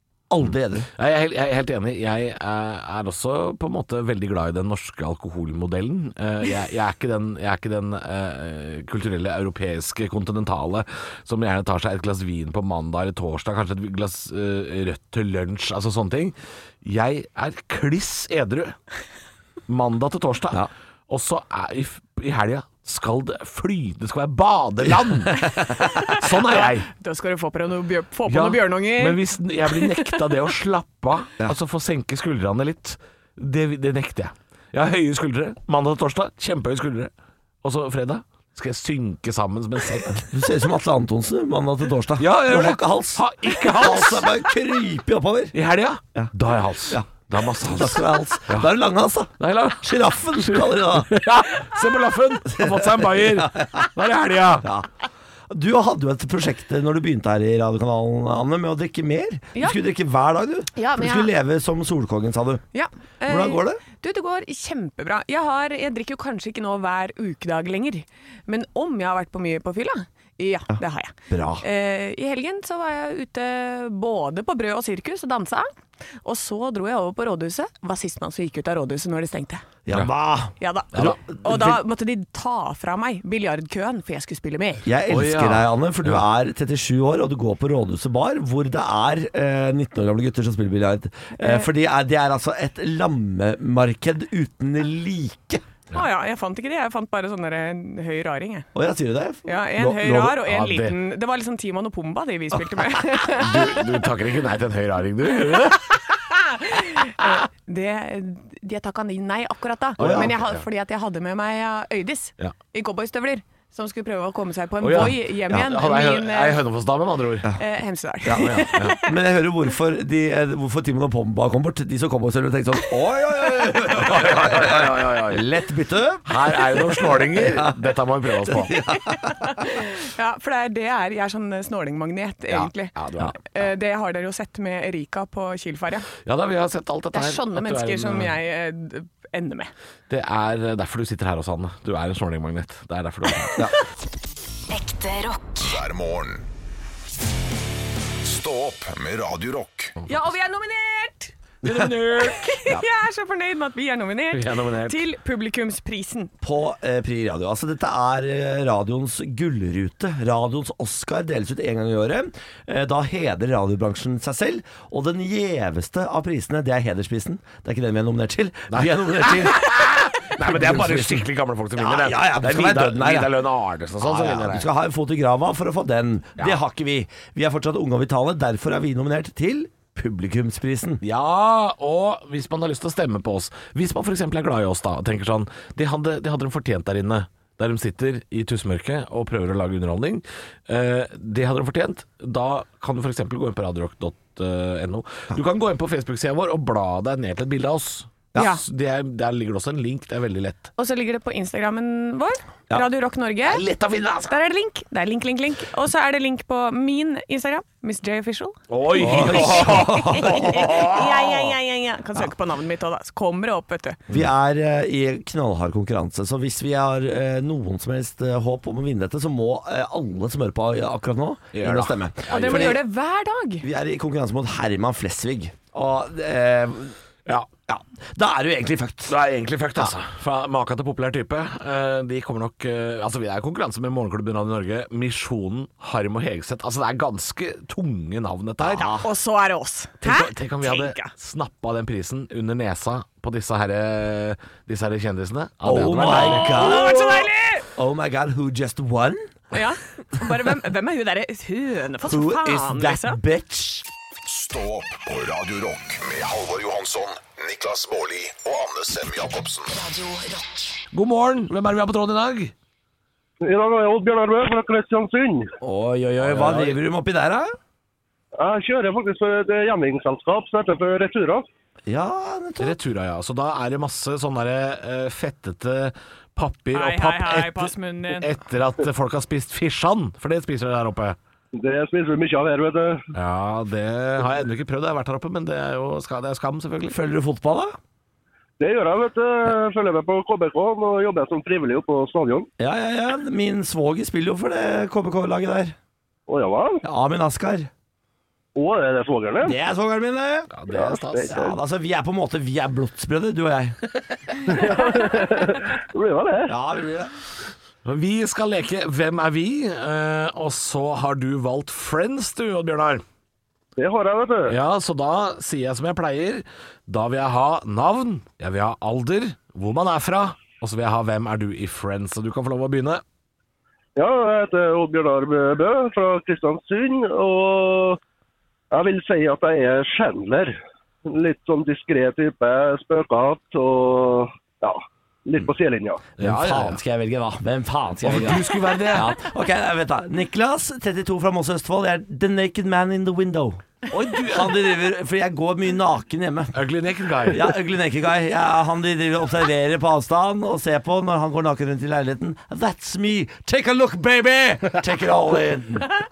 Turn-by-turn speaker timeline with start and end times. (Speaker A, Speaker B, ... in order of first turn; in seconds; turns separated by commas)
Speaker A: 0.3-0.9, Speaker B: 1.0-18.8, Speaker B: 19.7-26.9, Speaker C: 25.6-30.2, Speaker B: 28.3-37.1, Speaker B: 37.6-40.2, Speaker A: 40.3-45.5, Speaker B: 42.2-44.4, Speaker B: 45.5-48.7, Speaker A: 46.9-51.2, Speaker B: 49.4-54.7, Speaker A: 52.6-53.9, Speaker A: 54.6-54.9, Speaker A: 55.5-62.6, Speaker C: 60.8-61.3, Speaker C: 62.7-75.7, Speaker A: 63.2-63.8, Speaker A: 71.3-71.6, Speaker C: 76.2-79.6, Speaker A: 79.8-81.8, Speaker C: 80.6-84.8, Speaker A: 84.8-95.6, Speaker B: 85.1-86.2, Speaker C: 91.4-91.7, Speaker C: 95.9-98.7, Speaker A: 98.7-100.4, Speaker C: 99.5-104.0, Speaker B: 100.3-101.0, Speaker B: 103.3-105.9, Speaker C: 106.3-116.6, Speaker B: 110.0-110.6, Speaker A: 110.0-110.3, Speaker B: 114.8-117.5, Speaker C: 117.6-119.1, Speaker A: 118.2-127.8, Speaker B: 118.4-119.0, Speaker B: 123.9-125.5, Speaker B: 126.2-128.8, Speaker A: 128.5-129.3, Speaker C: 129.0-136.1, Speaker B: 132.5-133.4, Speaker B: 136.2-138.3, Speaker C: 137.1-139.7, Speaker B: 140.1-143.7, Speaker D: 144.7-145.8, Speaker E: 145.6-146.4, Speaker E: 148.2-149.9, Speaker C: 150.1-151.3, Speaker B: 151.6-152.4, Speaker C: 152.2-156.3, Speaker B: 154.3-155.0, Speaker A: 156.4-173.4, Speaker B: 168.7-174.7, Speaker A: 174.0-181.0, Speaker B: 181.0-200.7, Speaker C: 198.3-198.6, Speaker C: 200.8-203.6, Speaker B: 203.4-204.3, Speaker C: 204.2-214.0, Speaker B: 208.7-211.5, Speaker A: 208.9-210.8, Speaker A: 214.1-222.8, Speaker B: 221.5-222.8, Speaker C: 222.3-223.7, Speaker A: 223.6-226.9, Speaker A: 227.7-229.2, Speaker B: 229.1-239.0, Speaker A: 238.6-239.0, Speaker C: 238.8-241.1, Speaker B: 240.0-247.1, Speaker A: 245.6-247.2, Speaker C: 246.0-247.7, Speaker A: 247.8-249.2, Speaker C: 249.5-253.2, Speaker A: 252.0-253.8, Speaker E: 254.2-259.7, Speaker D: 259.7-260.9, Speaker B: 260.9-262.5, Speaker F: 263.4-265.5, Speaker A: 265.6-267.5, Speaker B: 266.2-266.8, Speaker F: 268.4-271.4, Speaker A: 271.9-272.8, Speaker B: 272.6-281.2, Speaker C: 276.7-278.3, Speaker F: 281.5-283.1, Speaker B: 283.1-287.0, Speaker A: 286.8-287.8, Speaker F: 288.6-292.5, Speaker A: 292.6-295.8, Speaker F: 296.3-296.8, Speaker A: 296.8-297.7, Speaker F: 298.6-299.6, Speaker A: 299.4-300.5, Speaker B: 300.5-301.4, Speaker F: 300.7-301.6, Speaker A: 301.3-303.8, Speaker F: 304.5-306.5, Speaker A: 306.5-307.1, Speaker B: 307.8-313.0, Speaker F: 313.8-314.6, Speaker B: 314.5-323.0, Speaker F: 323.9-328.0, Speaker F: 328.7-336.1, Speaker B: 336.2-336.8, Speaker A: 336.2-343.6, Speaker B: 338.0-339.1, Speaker B: 343.9-344.7, Speaker A: 344.2-346.6, Speaker B: 346.5-347.5, Speaker A: 347.3-355.9